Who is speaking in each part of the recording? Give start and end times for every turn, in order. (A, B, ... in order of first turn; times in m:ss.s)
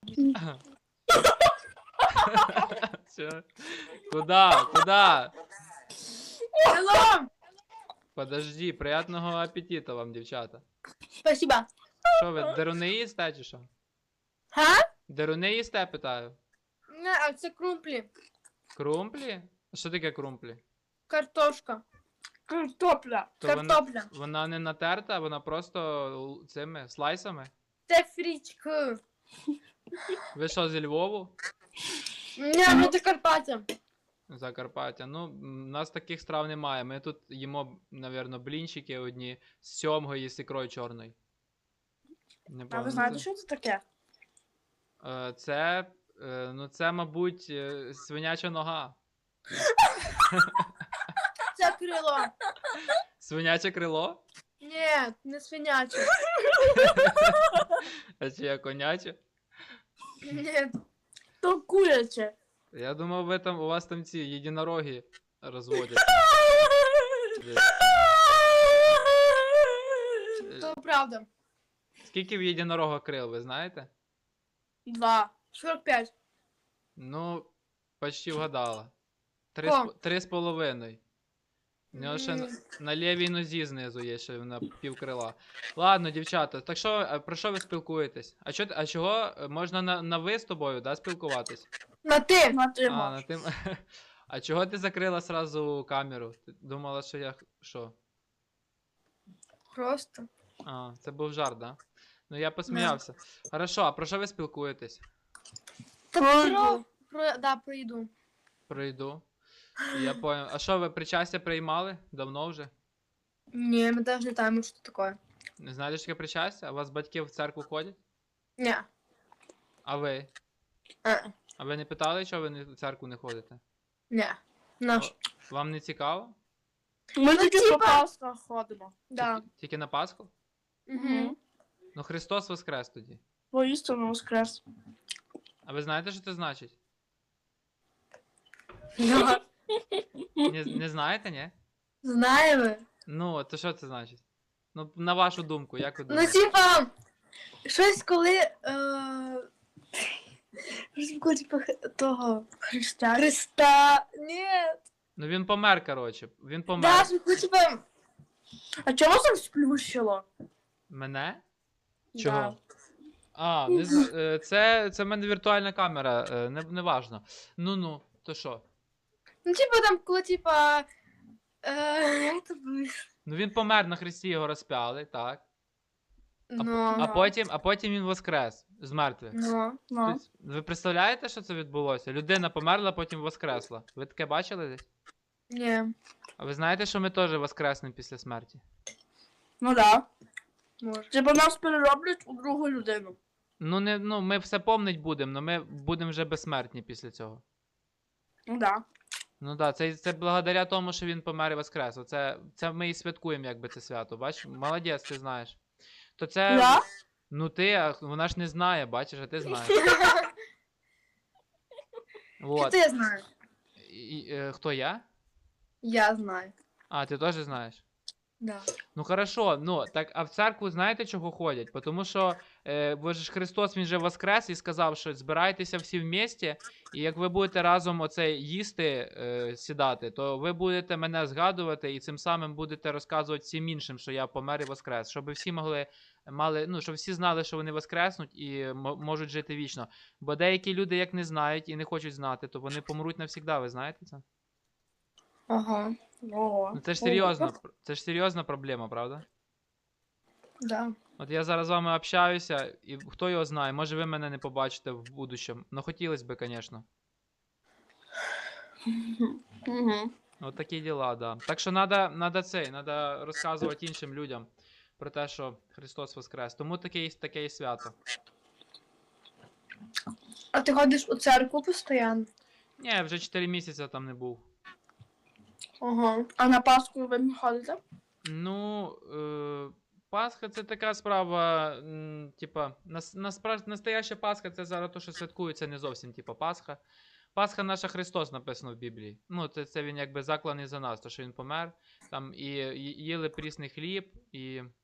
0:00.4-0:00.6 A
0:02.1-0:05.3 A
0:06.6-0:07.3 B
0:08.2-0:10.6 A
0:11.2-0:11.7 B
0:12.1-0:13.7 A
0:14.5-0:14.8 B
0:15.1-0:16.4 A
0:16.9-0:18.1 B
0:18.7-0:20.6 A
0:21.1-0:21.8 B
0:22.5-0:23.3 C
0:23.4-0:27.5 A
0:23.4-0:24.1 B
0:27.9-0:29.0 B
0:30.3-0:31.3 A
0:32.4-0:33.7 B
0:34.3-0:41.2 A
0:42.5-0:43.2 A
0:42.7-0:43.8 C
0:43.0-0:43.2 B
0:45.0-0:49.0 A
0:50.2-0:50.7 A
0:51.5-0:52.3 B
0:53.2-0:54.2 A
0:54.6-0:56.2 B
0:56.6-0:57.5 A
0:58.2-0:59.2 A
1:00.2-1:00.7 B
1:01.4-1:02.3 C
1:02.7-1:06.3 A
1:07.3-1:07.8 A
1:09.0-1:10.1 C
1:10.4-1:10.7 A
1:10.6-1:11.3 B
1:12.0-1:13.9 A
1:14.9-1:15.3 C
1:15.5-1:16.1 B
1:17.0-1:17.5 A
1:18.0-1:18.9 A
1:19.6-1:21.0 A
1:19.6-1:19.9 B
1:21.9-1:22.5 B
1:21.9-1:31.7 A
1:32.0-1:32.6 B
1:32.5-1:33.1 C
1:32.9-1:37.9 A
1:39.7-1:40.3 B
1:40.6-1:41.8 A
1:42.3-1:45.0 A
1:42.7-1:43.0 B
1:46.1-1:48.1 B
1:46.2-1:46.8 C
1:48.7-1:49.2 A
1:49.9-1:52.7 A
1:53.5-1:55.2 B
1:55.6-1:58.0 A
1:58.6-1:58.9 B
1:59.8-2:00.3 A
2:01.0-2:01.3 B
2:01.6-2:03.6 A
2:04.1-2:05.1 B
2:05.0-2:06.4 A
2:07.2-2:09.0 C
2:07.3-2:08.0 B
2:09.1-2:09.4 B
2:09.2-2:10.3 A
2:10.9-2:11.3 B
2:10.9-2:11.4 C
2:12.0-2:13.2 A
2:13.5-2:14.6 C
2:15.6-2:16.8 A
2:19.0-2:19.4 B
2:20.4-2:21.5 A
2:22.0-2:22.8 B
2:23.1-2:24.2 A
2:24.7-2:26.4 A
2:26.1-2:26.9 B
2:27.7-2:29.5 B
2:31.0-2:32.5 B
2:32.7-2:33.3 C
2:33.1-2:34.8 B
2:35.2-2:37.1 A
2:36.8-2:37.8 B
2:38.8-2:40.2 C
2:40.9-2:41.4 A
2:42.2-2:42.6 C
2:42.2-2:42.6 A
2:43.4-2:48.6 A
2:49.5-2:50.9 B
2:51.6-2:53.0 B
2:53.3-2:55.4 A
2:56.5-2:57.1 B
2:56.6-2:59.4 A
2:57.0-2:57.3 C
2:59.3-2:59.8 B
2:59.9-3:00.2 C
3:00.0-3:04.9 A
3:05.5-3:05.9 B
3:06.4-3:08.6 A
3:09.6-3:10.1 C
3:10.8-3:11.1 B
3:11.1-3:13.2 C
3:13.6-3:17.4 A
3:18.5-3:18.8 C
3:19.4-3:25.6 A
3:26.2-3:29.8 A
3:26.5-3:26.8 C
3:29.7-3:30.3 B
3:32.4-3:32.8 A
3:32.6-3:33.2 B
3:33.8-3:35.0 A
3:35.8-3:36.5 B
3:36.9-3:37.8 A
3:38.4-3:38.7 B
3:39.0-4:04.2 A
4:05.5-4:06.0 B
4:06.2-4:07.5 C
4:06.7-4:09.2 A
4:10.6-4:10.9 B
4:11.2-4:16.9 A
4:18.9-4:20.1 C
4:20.4-4:28.0 A
4:30.5-4:32.3 B
4:32.8-4:34.4 A
4:35.8-4:36.3 B
4:36.4-4:37.8 C
4:38.2-4:46.8 A
4:47.4-4:54.7 A